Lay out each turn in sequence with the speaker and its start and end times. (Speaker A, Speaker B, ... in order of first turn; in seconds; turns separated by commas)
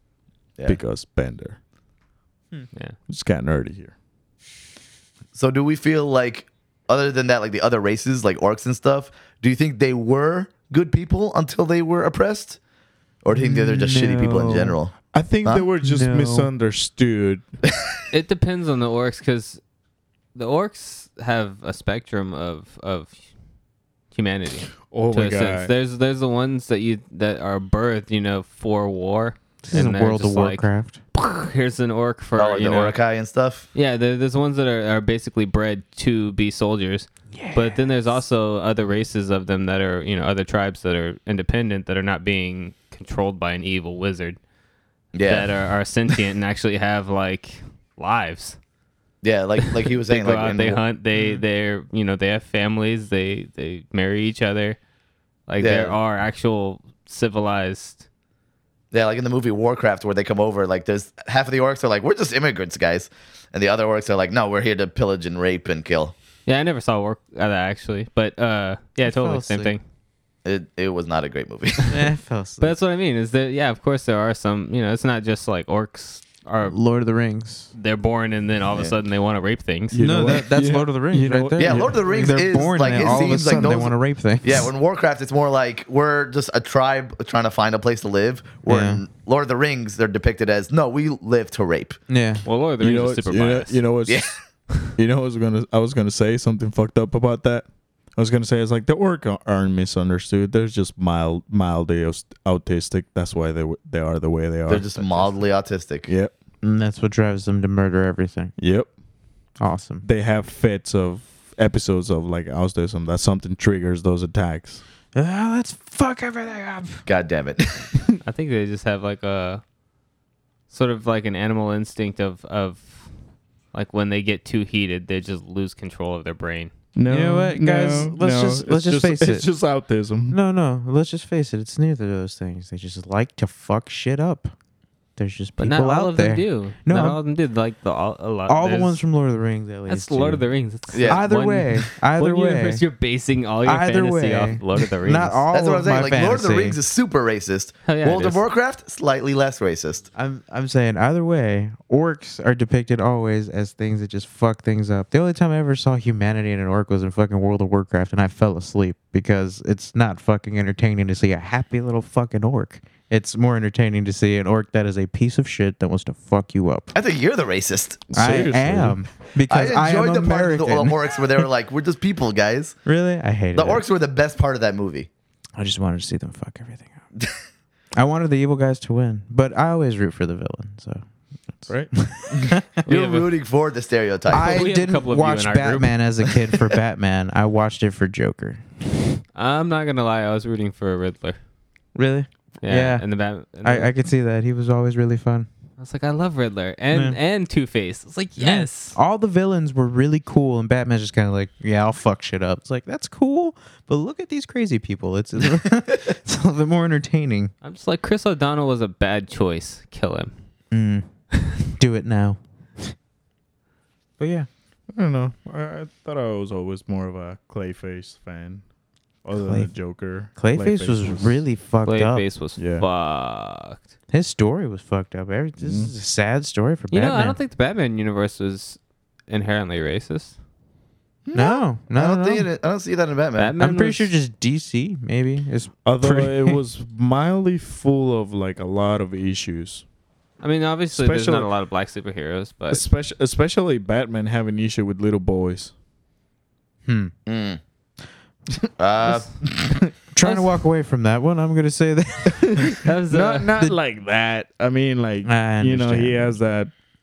Speaker A: 0.7-1.6, Speaker A: 3.1-3.9, Speaker B: 5.3-12.6, Speaker B: 13.2-14.9, Speaker C: 13.3-14.8, Speaker A: 15.1-17.4, Speaker C: 15.8-16.5, Speaker D: 18.1-19.6, Speaker D: 20.4-23.1, Speaker D: 24.1-33.0, Speaker A: 24.9-25.7, Speaker C: 29.6-31.0, Speaker B: 32.4-33.7, Speaker D: 33.7-44.4, Speaker C: 37.3-37.9, Speaker B: 45.1-45.5, Speaker D: 45.2-48.6, Speaker B: 49.2-50.8, Speaker D: 49.6-54.8, Speaker D: 55.5-58.0, Speaker B: 55.6-56.0, Speaker B: 58.9-66.1, Speaker D: 66.5-69.8, Speaker C: 69.0-69.7, Speaker B: 70.5-71.9, Speaker C: 71.9-72.8, Speaker D: 72.6-76.8, Speaker C: 76.7-77.7, Speaker D: 77.7-80.4, Speaker A: 79.9-83.8, Speaker C: 80.0-84.7, Speaker B: 81.6-92.0, Speaker C: 88.7-89.0, Speaker C: 92.1-92.5, Speaker D: 92.5-93.8, Speaker A: 92.8-94.2, Speaker B: 94.1-94.3, Speaker A: 95.0-105.5, Speaker B: 104.7-106.1, Speaker A: 106.1-106.3, Speaker C: 106.6-108.5, Speaker A: 108.6-108.9, Speaker C: 109.6-110.0, Speaker A: 110.0-114.8, Speaker C: 115.2-117.0, Speaker B: 117.1-117.9, Speaker D: 118.2-119.6, Speaker D: 120.7-123.1, Speaker D: 123.7-126.7, Speaker A: 127.0-130.4, Speaker C: 127.1-129.5, Speaker C: 130.3-134.5, Speaker C: 135.2-137.2, Speaker D: 135.6-139.0, Speaker C: 138.5-140.4, Speaker D: 139.9-145.4, Speaker B: 140.9-141.3, Speaker C: 141.1-142.8, Speaker C: 143.6-146.8, Speaker B: 145.5-150.0, Speaker D: 147.8-148.4, Speaker C: 150.1-166.9, Speaker B: 166.9-168.0, Speaker A: 168.1-169.0, Speaker C: 168.1-171.4, Speaker B: 169.5-172.8, Speaker C: 172.8-173.8, Speaker B: 173.5-175.1, Speaker C: 175.6-177.0, Speaker C: 177.9-181.1, Speaker C: 181.6-182.6, Speaker B: 182.3-184.6, Speaker D: 182.8-183.3, Speaker C: 184.3-188.7, Speaker D: 184.3-186.0, Speaker D: 189.3-191.4, Speaker C: 191.9-193.1, Speaker D: 192.6-193.9, Speaker C: 193.6-195.5, Speaker D: 195.8-199.0, Speaker C: 196.9-197.2, Speaker C: 198.4-207.5, Speaker D: 207.6-210.3, Speaker C: 210.7-211.1, Speaker C: 211.8-212.9, Speaker C: 214.2-214.5, Speaker A: 214.9-218.6, Speaker A: 219.2-221.4, Speaker C: 219.4-219.7, Speaker C: 220.4-222.2, Speaker D: 221.8-223.8, Speaker A: 222.6-222.9, Speaker C: 224.1-227.4, Speaker A: 225.6-225.9, Speaker D: 226.9-230.4, Speaker B: 231.3-233.5, Speaker C: 231.3-232.5, Speaker D: 233.4-234.1, Speaker C: 233.6-236.6, Speaker A: 235.8-239.8, Speaker D: 240.4-242.8, Speaker A: 240.9-241.5, Speaker A: 242.7-245.7, Speaker C: 246.9-247.1, Speaker B: 247.3-247.6, Speaker B: 248.8-249.7, Speaker C: 250.1-252.8, Speaker D: 250.2-250.5, Speaker A: 252.4-256.7, Speaker D: 252.8-253.5, Speaker C: 255.2-256.4